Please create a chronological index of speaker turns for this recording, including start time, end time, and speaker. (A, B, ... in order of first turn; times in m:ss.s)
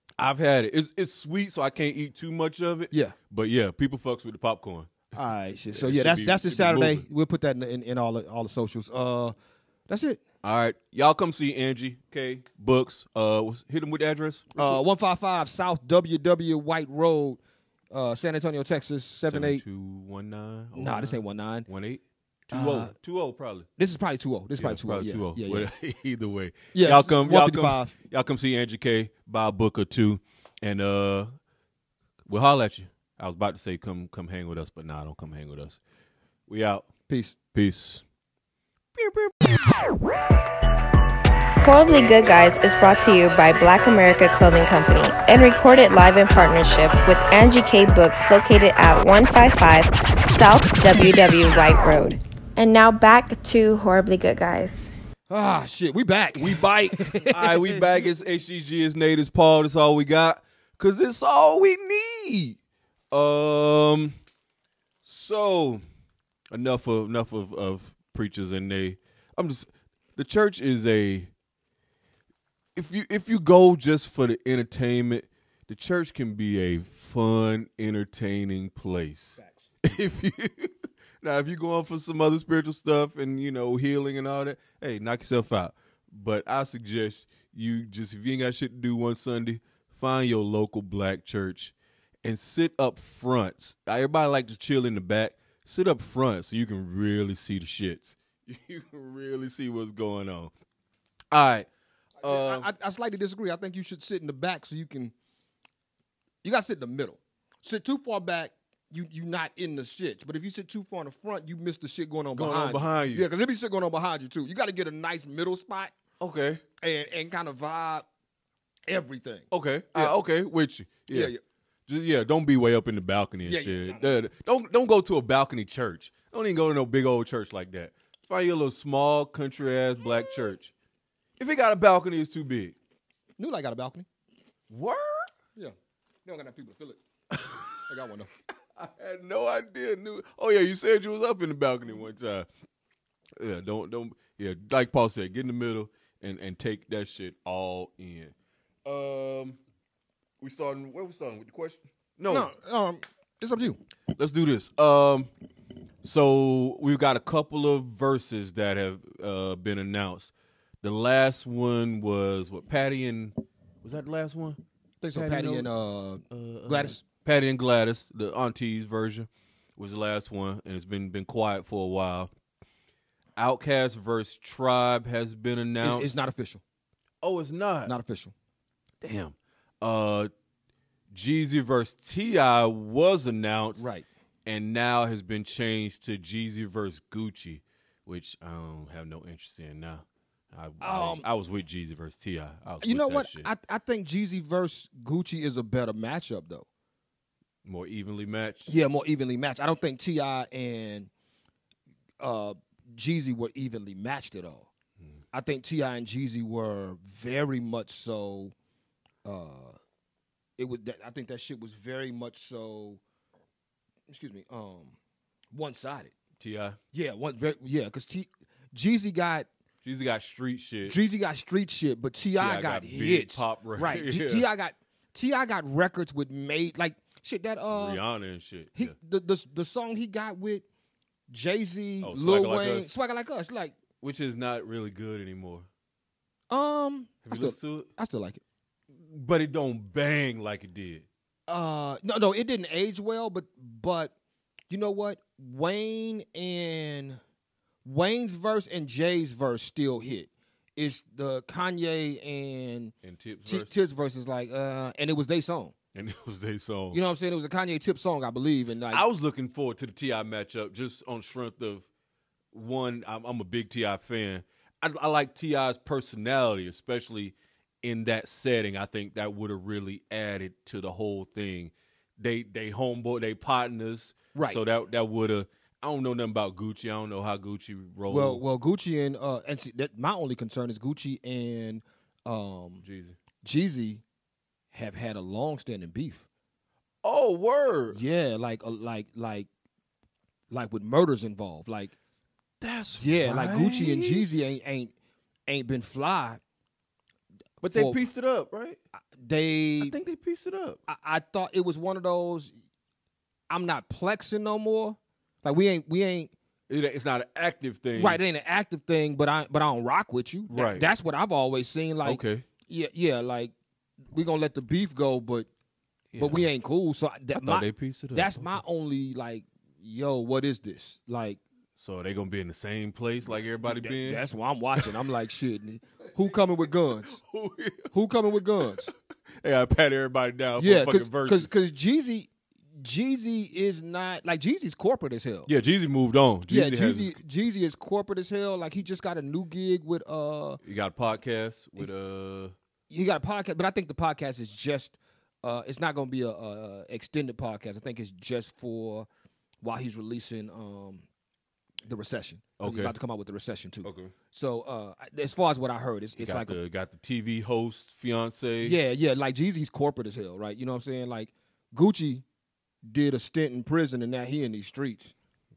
0:00.2-0:05.0 A
0:02.9-0:03.2 B
0:05.1-0:09.3 B
0:05.7-0:07.0 A
0:09.9-0:10.2 B
0:10.4-0:14.8 A
0:14.6-0:17.4 B
0:17.9-0:19.6 B
0:19.3-0:23.7 A
0:20.7-0:21.7 B
0:22.5-0:22.9 B
0:23.8-0:25.7 B
0:24.6-0:31.3 A
0:26.7-0:27.9 B
0:32.2-0:35.8 A
0:36.5-0:36.8 A
0:37.1-0:37.4 B
0:37.5-0:38.0 A
0:39.0-0:39.4 A
0:41.6-0:54.9 C
0:55.3-0:57.8 B
0:57.2-1:02.6 A
1:03.1-1:04.2 A
1:05.0-1:05.8 A
1:06.5-1:11.3 A
1:12.7-1:40.5 A
1:19.4-1:19.7 B
1:41.3-1:41.7 A
1:42.2-1:42.7 A
1:42.2-1:45.1 B
1:46.4-1:55.9 B
1:52.3-1:53.3 A
1:56.2-1:56.6 A
1:56.8-1:58.0 B
1:58.9-2:00.2 B
1:59.5-2:01.3 A
2:01.1-2:01.4 B
2:01.9-2:10.7 A
2:03.4-2:04.0 B
2:11.4-2:12.7 A
2:13.4-2:14.1 B
2:14.7-2:15.3 A
2:16.2-2:17.0 B
2:17.3-2:17.8 A
2:17.8-2:18.3 B
2:18.7-2:22.5 A
2:23.4-2:28.3 A
2:28.8-2:29.6 A
2:30.4-2:32.5 A
2:32.3-2:33.8 B
2:34.2-2:35.3 A
2:36.0-2:40.3 A
2:40.8-2:44.6 A
2:45.0-2:47.0 B
2:45.1-2:45.7 A
2:46.3-2:52.3 A
2:53.4-2:56.2 A
2:55.8-2:56.6 B
2:57.2-2:57.9 A
2:57.8-2:58.3 B
2:59.0-3:00.3 A
3:01.1-3:03.9 A
3:03.8-3:04.0 B
3:04.4-3:13.5 A
3:10.8-3:11.2 B
3:12.8-3:16.7 B
3:17.6-3:18.8 A
3:18.7-3:21.1 B
3:22.2-3:24.7 B
3:25.3-3:28.5 B
3:29.2-3:29.8 B
3:30.6-3:33.0 B
3:34.1-3:35.0 B
3:35.5-3:36.1 B
3:36.4-3:36.8 A
3:36.9-3:39.5 B
3:39.8-3:41.0 A
3:40.8-3:48.0 B
3:42.3-3:44.5 A
3:47.7-3:48.9 A
3:48.7-3:50.6 B
3:51.3-3:53.8 B
3:52.0-3:52.9 A
3:54.0-3:55.7 A
3:56.5-3:58.4 B
3:57.2-3:57.9 A
3:58.9-4:01.1 A
4:01.5-4:04.1 B
4:04.7-4:07.2 B
4:07.8-4:12.9 B
4:13.0-4:13.7 A
4:13.4-4:15.7 B
4:15.9-4:17.0 A
4:16.9-4:19.0 B
4:18.9-4:21.8 A
4:22.5-4:38.4 A
4:34.3-4:34.6 B
4:38.1-4:42.8 B
4:42.8-4:43.2 A
4:43.4-4:44.0 B
4:44.7-4:46.2 B
4:47.0-4:48.0 A
4:47.9-4:49.5 B
4:50.5-4:51.9 B
4:52.6-4:54.5 A
4:53.0-4:54.9 B
4:55.5-4:56.4 B
4:57.6-4:58.8 A
4:57.6-4:58.0 B
4:59.1-4:59.9 B
4:59.8-5:00.8 A
5:00.9-5:02.5 B
5:03.5-5:06.3 B
5:06.7-5:08.2 A
5:08.0-5:13.5 B
5:10.5-5:10.9 A
5:12.0-5:12.4 A
5:14.1-5:15.5 B
5:16.1-5:16.5 A
5:16.2-5:21.4 B
5:17.4-5:18.6 A
5:21.8-5:24.2 A
5:23.6-5:27.2 B
5:24.8-5:25.0 A
5:27.1-5:27.9 A
5:27.9-5:28.9 B
5:29.4-5:31.5 A
5:30.6-5:35.5 B
5:35.4-5:37.2 A
5:36.5-5:40.6 B
5:40.6-5:42.5 A
5:42.9-5:49.1 B
5:49.6-5:51.0 B
5:51.8-5:56.6 B
5:52.6-5:52.9 A
5:53.8-5:54.1 A
5:56.2-5:58.8 A
5:58.6-6:02.2 B
6:02.8-6:05.1 B